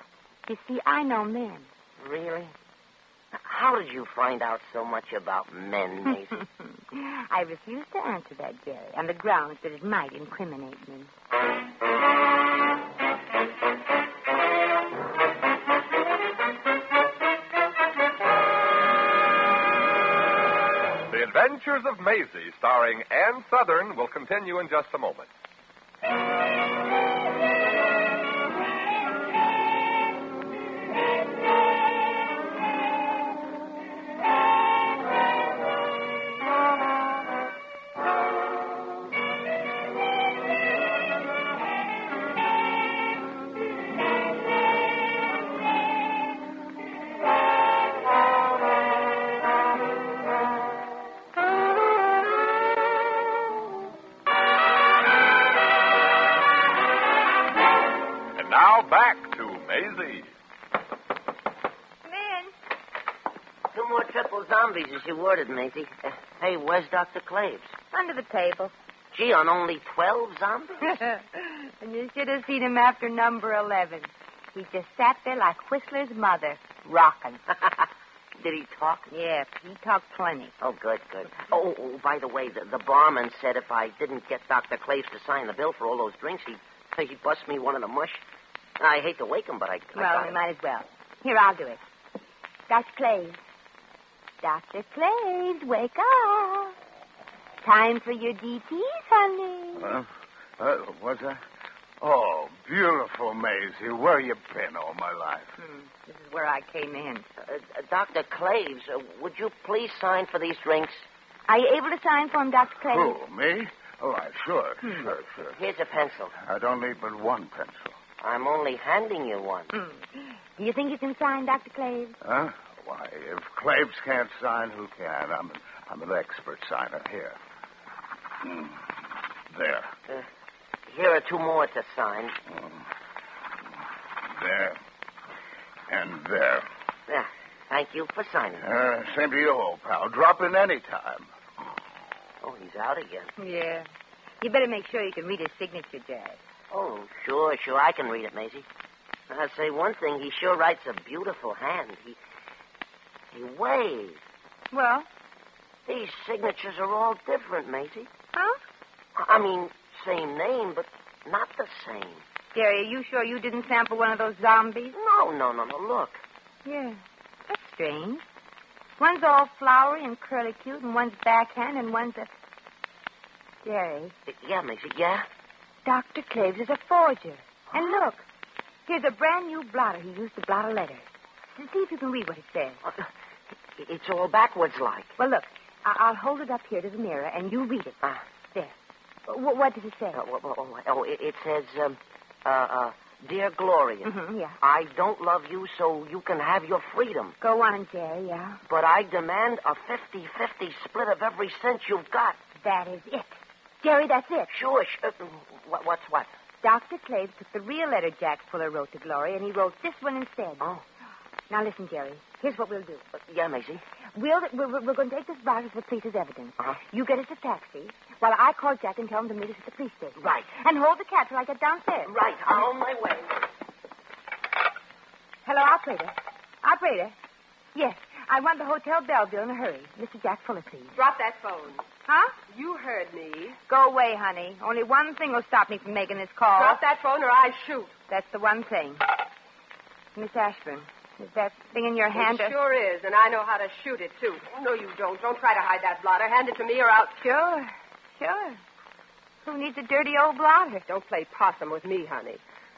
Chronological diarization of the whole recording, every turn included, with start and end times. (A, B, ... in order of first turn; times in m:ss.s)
0:00.5-0:01.7 A
0:02.0-0:02.5 B
0:03.3-0:06.4 B
0:06.6-0:11.1 A
0:21.1-0:25.3 C
0:58.4-1:00.3 C
1:02.0-1:02.5 A
1:03.7-1:07.7 B
1:07.9-1:08.7 A
1:09.1-1:10.9 B
1:10.9-1:17.4 A
1:18.4-1:19.1 B
1:19.1-1:20.5 A
1:20.6-1:28.2 B
1:28.8-1:30.4 B
1:30.0-1:31.8 A
1:32.7-1:33.4 A
1:34.4-1:36.8 A
1:37.6-1:39.9 A
1:39.8-1:40.1 D
1:40.6-1:41.4 D
1:42.0-1:45.5 D
1:45.6-1:47.3 A
1:47.4-1:51.0 B
1:51.5-1:53.2 A
1:52.8-1:55.6 D
1:54.8-1:55.1 A
1:55.6-1:56.3 B
1:56.4-1:58.0 D
1:58.2-1:59.7 B
1:59.7-2:02.2 A
2:02.2-2:07.4 D
2:08.4-2:08.8 D
2:09.5-2:09.9 D
2:10.9-2:12.3 B
2:12.5-2:12.8 D
2:14.3-2:14.8 D
2:15.9-2:16.7 D
2:17.1-2:18.6 B
2:18.6-2:21.3 D
2:22.4-2:23.3 B
2:23.4-2:23.9 A
2:24.4-2:26.4 A
2:26.7-2:28.6 B
2:29.3-2:32.2 B
2:33.3-2:34.2 B
2:34.7-2:35.1 A
2:35.8-2:38.1 B
2:39.2-2:42.2 B
2:42.5-2:44.9 A
2:44.9-2:46.2 B
2:46.6-2:48.2 A
2:49.0-2:52.3 A
2:53.6-2:54.1 A
2:54.3-2:55.3 B
2:55.8-2:58.2 A
2:58.9-3:02.8 A
3:03.8-3:05.1 B
3:05.2-3:08.0 A
3:09.3-3:10.2 A
3:10.1-3:17.4 B
3:14.0-3:14.6 A
3:17.4-3:18.6 A
3:18.7-3:22.4 B
3:22.6-3:24.5 A
3:24.5-3:26.3 B
3:26.6-3:30.6 A
3:31.5-3:33.0 A
3:33.1-3:33.8 B
3:34.1-3:42.1 A
3:40.2-3:40.5 B
3:42.1-3:43.3 B
3:45.4-3:47.1 A
3:47.7-3:50.9 A
3:50.9-3:51.8 E
3:52.0-3:52.3 A
3:52.5-3:53.6 E
3:53.7-3:56.8 A
3:56.6-3:57.9 E
3:58.1-3:59.0 A
4:00.2-4:02.5 A
4:02.1-4:07.6 E
4:08.2-4:08.6 A
4:09.4-4:10.8 A
4:10.9-4:12.4 E